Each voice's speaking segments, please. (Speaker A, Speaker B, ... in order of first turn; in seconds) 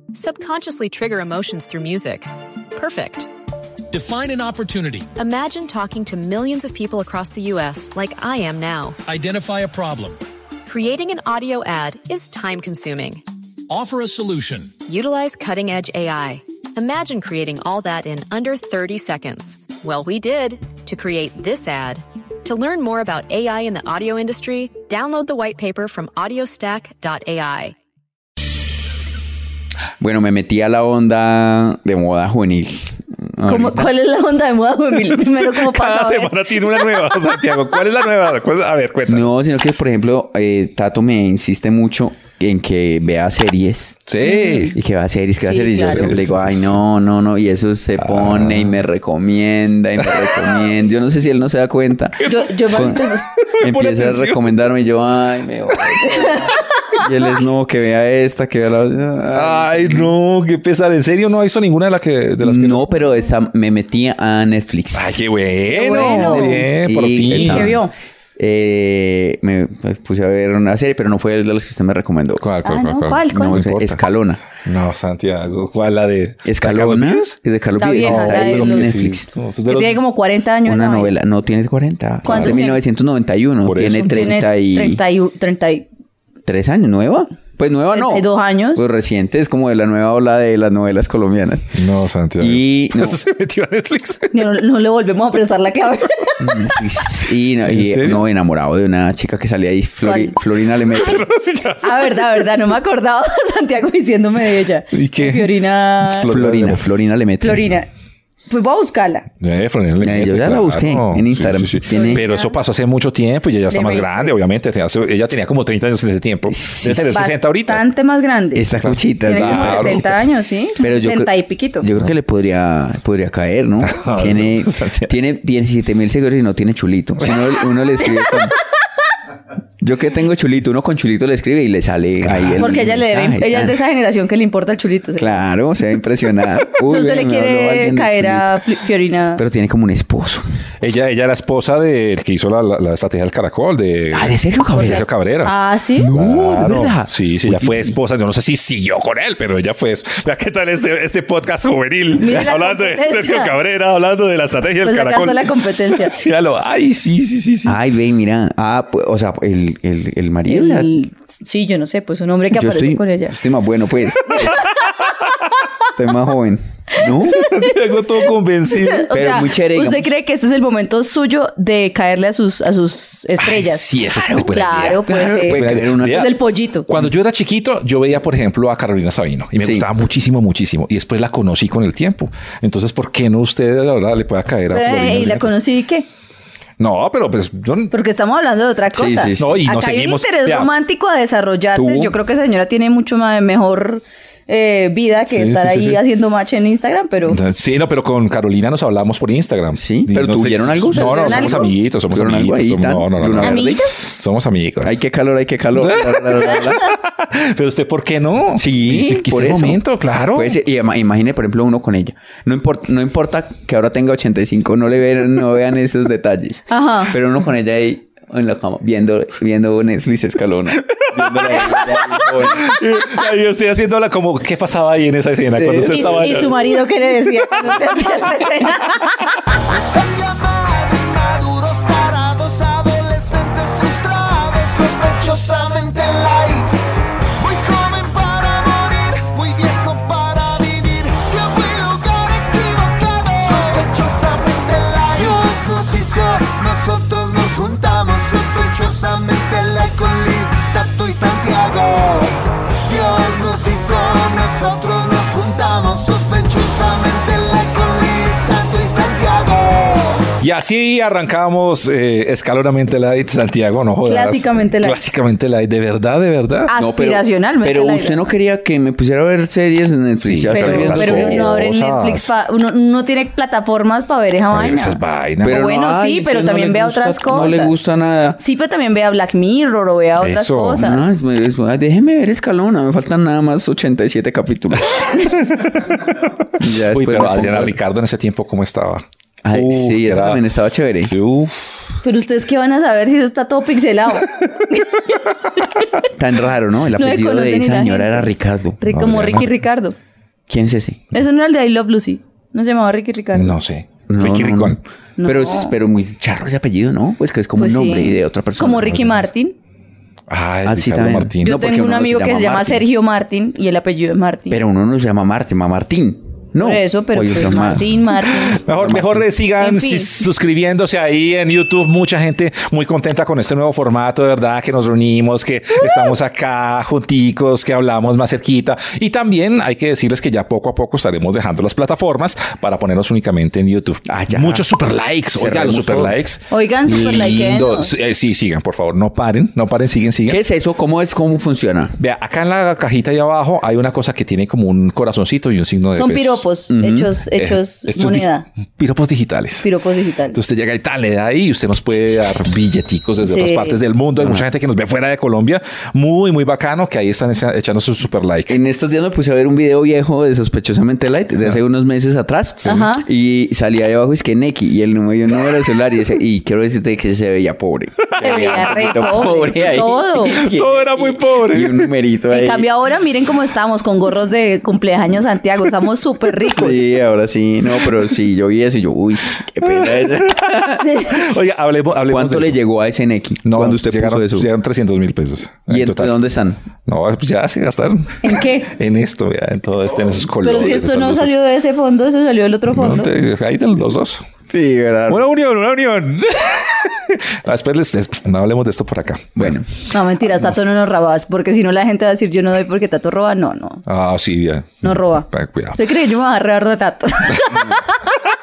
Speaker A: 0.1-3.3, 5.2-9.0, 10.7-13.2, 14.9-27.8
Speaker B: 3.9-5.1, 9.1-10.2, 13.7-14.8
Speaker C: 30.0-33.9, 39.1-44.1, 44.7-60.1, 62.4-65.2, 65.9-67.8, 68.4-72.5, 73.3-74.5, 76.5-79.3, 80.7-85.0, 86.5-91.8, 92.4-93.2, 96.4-101.2, 106.3-107.7, 110.0-112.2, 116.5-117.2, 118.5-120.1, 120.8-128.6, 129.8-133.8, 135.2-138.6, 139.4-140.4, 144.1-145.1, 146.0-147.9, 157.7-161.0, 162.5-164.6, 166.0-167.5, 169.1-170.1, 174.7-176.3, 179.6-179.9, 188.9-189.6, 191.8-192.1, 199.8-203.8, 204.8-206.9, 208.6-209.8, 210.3-222.8, 225.5-226.6, 266.8-271.6, 275.4-278.4, 280.7-285.3, 286.6-287.8, 289.4-291.1, 296.2-298.8, 300.5-301.0, 304.1-309.2, 310.6-312.9, 314.5-318.0, 318.7-319.3, 334.1-334.7, 335.4-336.2, 340.3-342.0, 346.7-347.1, 354.2-354.4, 358.5-372.7, 376.4-380.9, 382.1-384.5, 385.7-386.6, 394.5-395.3, 399.4-399.7
Speaker D: 33.5-36.5, 44.2-44.8, 45.4-46.1, 52.2-53.2, 56.1-57.0, 65.7-66.7, 67.3-67.9, 72.7-73.6, 77.8-79.0, 79.7-81.1, 82.2-82.8, 83.9-85.9, 87.9-88.8, 94.3-96.7, 100.0-100.4, 101.8-106.3, 107.4-107.9, 108.5-109.3, 111.9-112.6, 113.7-114.3, 117.1-118.7, 119.2-121.8, 132.6-135.4, 136.8-139.4, 145.4-146.1, 152.2-153.5, 154.8-156.2, 160.5-163.4, 164.3-164.8, 167.3-167.8, 168.7-176.9, 184.7-186.1, 187.9-197.4, 200.9-201.7, 203.4-203.9, 216.7-217.1, 225.9-229.5, 264.1-265.0, 266.7-268.2, 270.5-277.7, 278.4-281.1, 292.0-295.3, 296.9-299.9, 301.1-303.6, 305.2-305.7, 307.6-309.6, 311.4-314.6, 316.6-318.6, 319.6-320.2, 336.5-337.9, 346.0-348.5, 349.6-350.4, 353.2-353.8, 362.6-363.1, 368.2-370.4, 372.3-376.8, 380.8-381.2, 388.2-388.7, 390.4-393.1, 399.9-403.9, 404.8-408.1
Speaker E: 35.1-39.3, 44.1-44.8, 45.9-46.8, 48.0-48.8, 53.4-54.5, 59.3-63.0, 64.9-67.8, 72.4-74.1, 74.6-77.4, 78.0-80.0, 82.3-82.6, 83.7-84.2, 91.8-94.3, 97.7-98.2, 100.9-102.5, 104.9-106.8, 109.4-117.8, 118.8-120.1, 123.8-125.1, 132.2-132.7, 140.8-145.5, 146.1-157.8, 164.4-164.9, 167.3-169.5, 173.4-185.5, 186.8-187.9, 189.4-190.7, 195.3-196.0, 197.3-205.0, 205.7-210.6, 221.0-226.6, 227.6-228.2, 260.4-266.7, 270.2-272.3, 274.5-275.7, 280.2-280.9, 285.5-285.9, 286.6-290.5, 291.0-292.0, 298.9-299.5, 303.3-304.8, 310.3-311.6, 318.5-340.4, 342.0-346.4, 347.3-349.7, 350.3-358.6, 368.2-369.3, 370.3-371.9, 379.6-382.6, 383.4-386.2, 386.9-391.4, 392.7-394.3, 395.1-399.6, 403.9-405.9
Speaker F: 229.6-236.8, 237.4-260.3